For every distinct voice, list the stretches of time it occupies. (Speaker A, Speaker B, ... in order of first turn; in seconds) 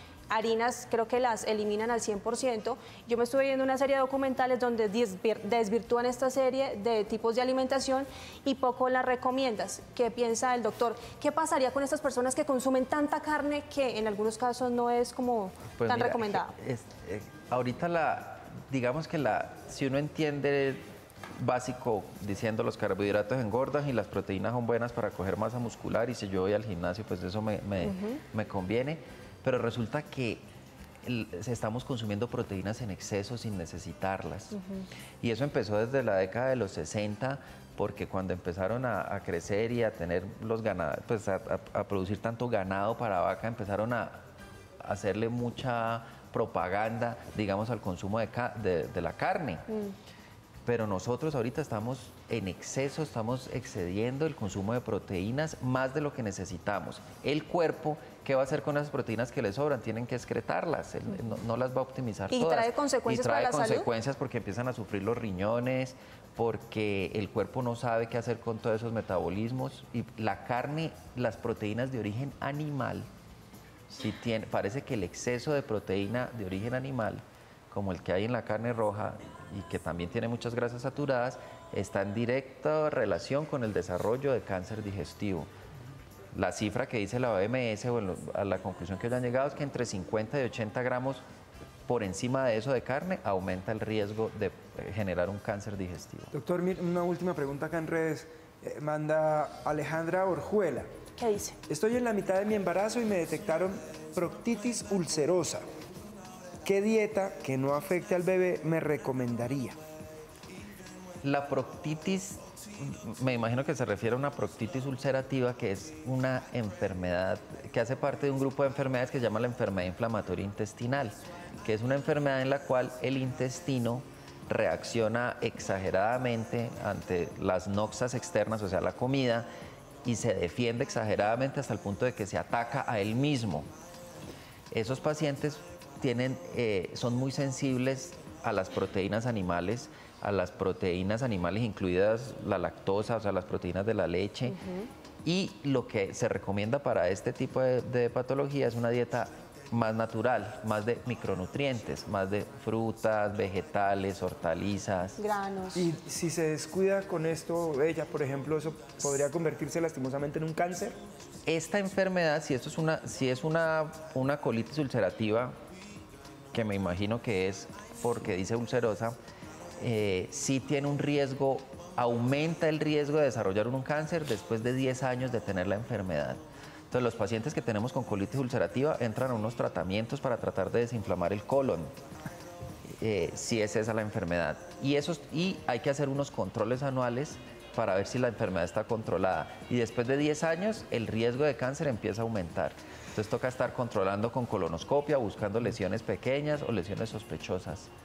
Speaker A: 0.3-16.5, 27.8-28.2, 34.5-34.9, 62.3-63.9, 101.2-101.6, 144.5-144.9, 155.2-155.9
Speaker B: 15.8-20.8, 21.4-30.4, 31.0-34.6, 35.2-44.2, 44.8-49.6, 50.6-73.1, 73.9-85.5, 86.3-91.2, 91.9-96.3, 111.2-129.5, 130.1-133.7, 134.7-144.6, 145.2-155.2, 161.5-165.6, 166.5-169.2, 169.8-176.4, 176.9-181.9, 183.0-197.9
Speaker C: 96.3-100.9, 101.7-105.6, 106.7-109.8, 155.8-161.0